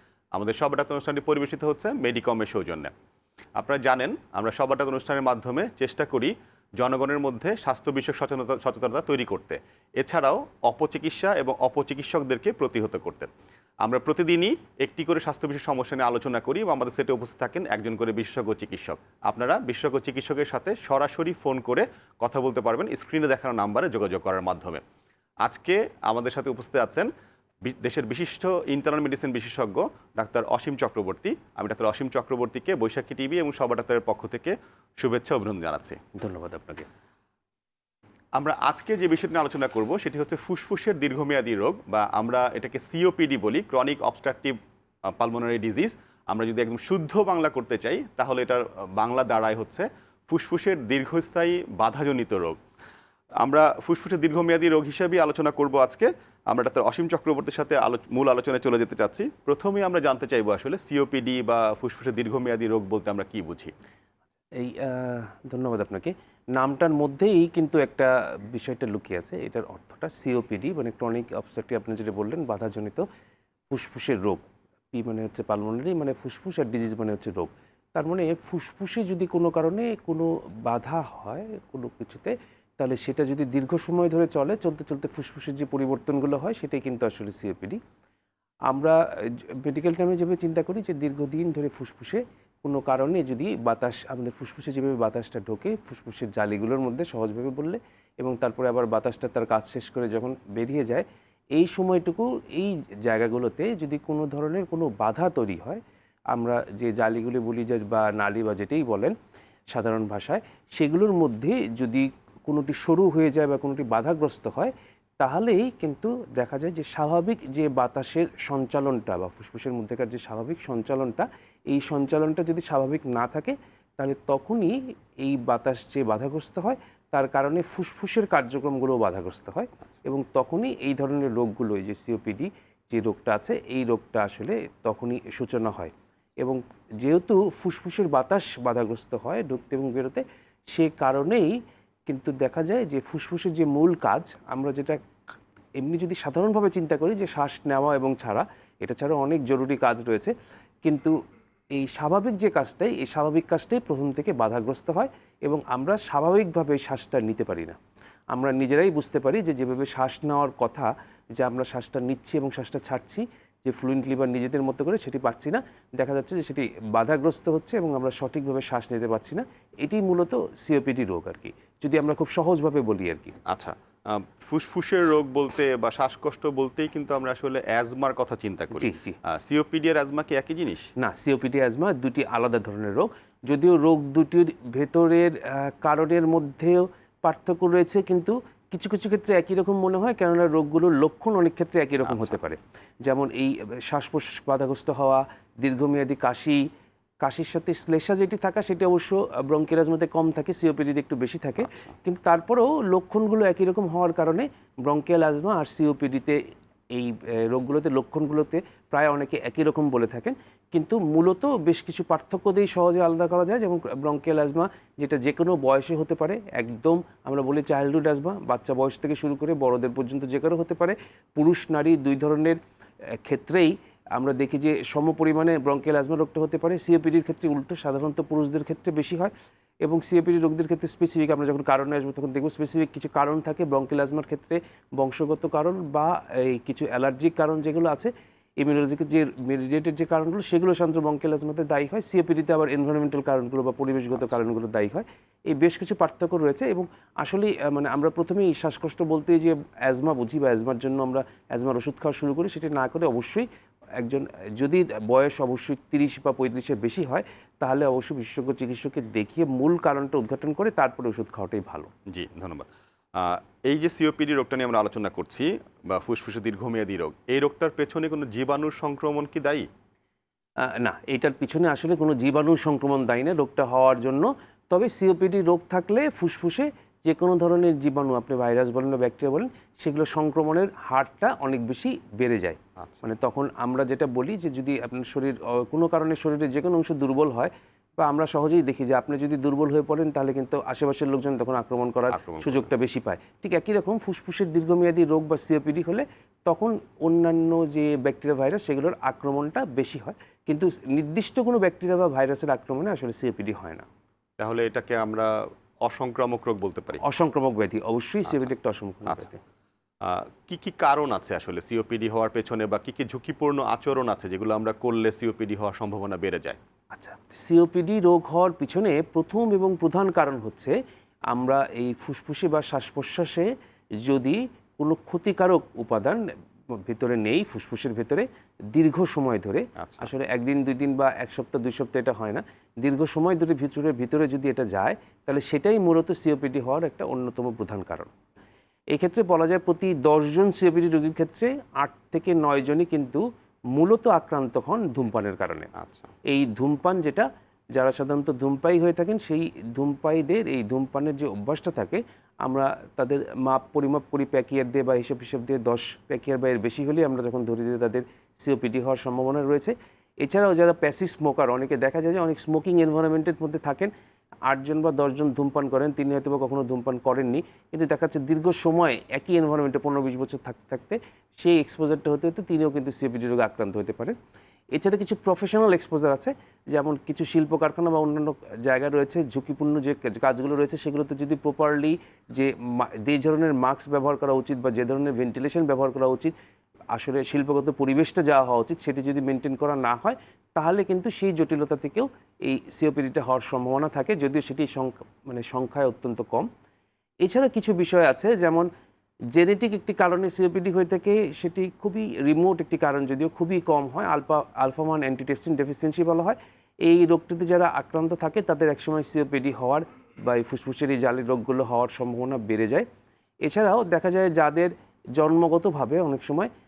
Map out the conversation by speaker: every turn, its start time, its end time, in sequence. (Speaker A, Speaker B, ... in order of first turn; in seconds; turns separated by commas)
Speaker A: 0.3-2.9, Speaker A: 3.6-13.3, Speaker A: 13.8-24.8, Speaker A: 25.4-27.1, Speaker A: 27.6-36.0, Speaker B: 36.1-36.9, Speaker A: 38.4-44.6, Speaker A: 45.2-52.6, Speaker A: 53.4-63.7, Speaker B: 64.6-73.0, Speaker B: 73.7-87.8, Speaker B: 88.7-89.0, Speaker B: 89.6-105.8, Speaker B: 106.3-109.1, Speaker B: 109.7-145.0, Speaker B: 145.8-151.1, Speaker B: 151.7-157.8, Speaker B: 158.3-173.3, Speaker A: 173.5-180.8, Speaker B: 178.7-179.2, Speaker B: 181.0-196.6, Speaker A: 192.1-192.3, Speaker B: 197.2-206.4, Speaker A: 201.6-201.9, Speaker B: 206.9-222.6, Speaker B: 223.2-229.3, Speaker B: 229.8-253.5, Speaker B: 254.0-261.9, Speaker A: 262.1-269.7, Speaker B: 270.6-303.9, Speaker A: 292.1-292.7, Speaker A: 304.4-307.0, Speaker B: 307.0-309.4, Speaker A: 310.0-316.6, Speaker B: 316.9-320.8, Speaker B: 321.3-326.2, Speaker B: 326.7-338.1, Speaker A: 329.8-330.1, Speaker B: 338.9-343.2, Speaker B: 343.7-345.7, Speaker A: 345.8-346.1, Speaker B: 346.3-363.9, Speaker B: 364.5-374.1, Speaker B: 374.7-386.3, Speaker B: 386.9-396.5, Speaker B: 397.2-398.7, Speaker B: 399.3-412.9, Speaker B: 413.4-416.5